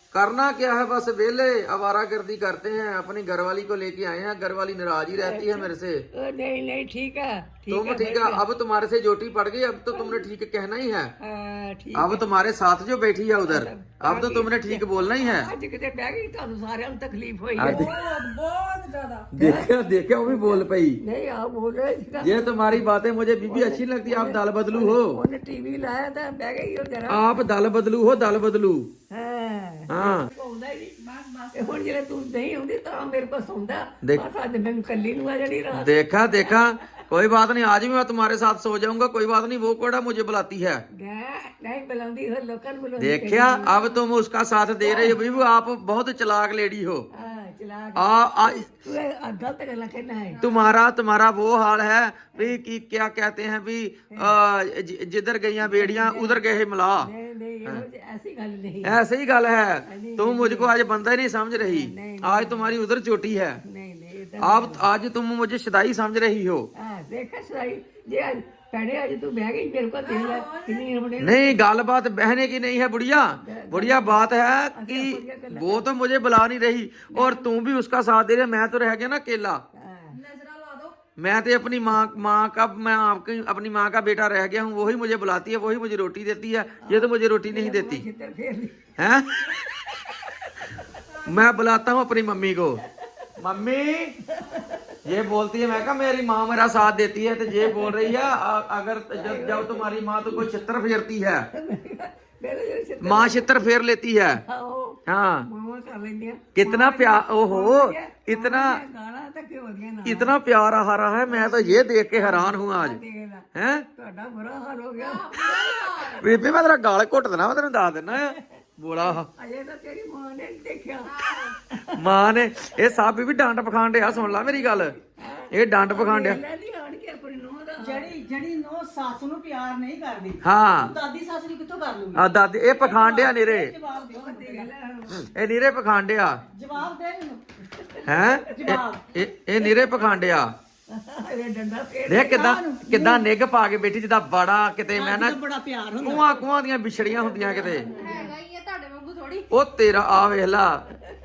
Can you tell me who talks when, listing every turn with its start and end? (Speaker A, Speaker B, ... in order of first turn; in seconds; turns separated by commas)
Speaker A: 0.1-6.0, Speaker B: 5.2-8.4, Speaker A: 7.7-11.1, Speaker B: 9.9-10.3, Speaker B: 11.2-12.3, Speaker A: 11.9-15.5, Speaker B: 13.4-17.9, Speaker A: 17.6-17.9, Speaker C: 17.6-19.3, Speaker A: 19.3-21.0, Speaker B: 19.4-19.7, Speaker B: 20.2-27.4, Speaker A: 22.2-25.2, Speaker A: 27.1-28.9, Speaker B: 29.1-31.0, Speaker A: 29.9-30.3, Speaker C: 31.0-31.8, Speaker B: 31.5-36.4, Speaker A: 35.8-40.8, Speaker B: 40.9-43.9, Speaker A: 43.0-47.1, Speaker B: 44.8-45.2, Speaker B: 47.1-50.4, Speaker A: 48.0-48.7, Speaker A: 50.4-57.1, Speaker B: 54.1-54.4, Speaker B: 55.6-56.5, Speaker B: 57.0-59.0, Speaker A: 58.8-63.6, Speaker B: 59.9-60.7, Speaker B: 61.6-62.8, Speaker B: 63.6-64.9, Speaker A: 64.4-66.7, Speaker B: 66.8-71.6, Speaker C: 70.0-70.9, Speaker A: 71.2-79.6, Speaker B: 73.4-75.9, Speaker B: 77.1-77.5, Speaker B: 79.7-80.2, Speaker C: 80.1-81.0, Speaker A: 81.2-88.0, Speaker B: 86.8-88.7, Speaker A: 89.0-89.3, Speaker A: 91.2-92.8, Speaker A: 93.4-94.3, Speaker B: 94.4-94.9, Speaker A: 95.0-101.5, Speaker B: 97.5-98.2, Speaker B: 99.1-100.5, Speaker B: 101.5-103.6, Speaker A: 103.0-104.4, Speaker B: 104.4-110.4, Speaker A: 105.1-105.5, Speaker A: 106.5-108.8, Speaker A: 110.0-113.0, Speaker B: 111.2-116.4, Speaker A: 113.5-113.9, Speaker C: 115.0-116.3, Speaker A: 116.2-119.3, Speaker B: 119.0-121.2, Speaker C: 121.0-121.6, Speaker A: 122.0-125.0, Speaker B: 124.1-128.1, Speaker A: 125.5-126.4, Speaker D: 127.8-134.7, Speaker A: 130.4-130.9, Speaker A: 132.2-133.7, Speaker B: 133.9-135.3, Speaker A: 135.3-136.4, Speaker D: 136.5-137.4, Speaker B: 137.8-138.7, Speaker A: 138.1-140.5, Speaker D: 138.5-139.0, Speaker B: 139.6-139.9, Speaker B: 140.9-142.5, Speaker A: 142.1-145.4, Speaker D: 142.2-143.2, Speaker D: 144.9-146.4, Speaker A: 146.0-147.9, Speaker B: 147.1-148.3, Speaker C: 148.0-149.5, Speaker A: 149.5-150.8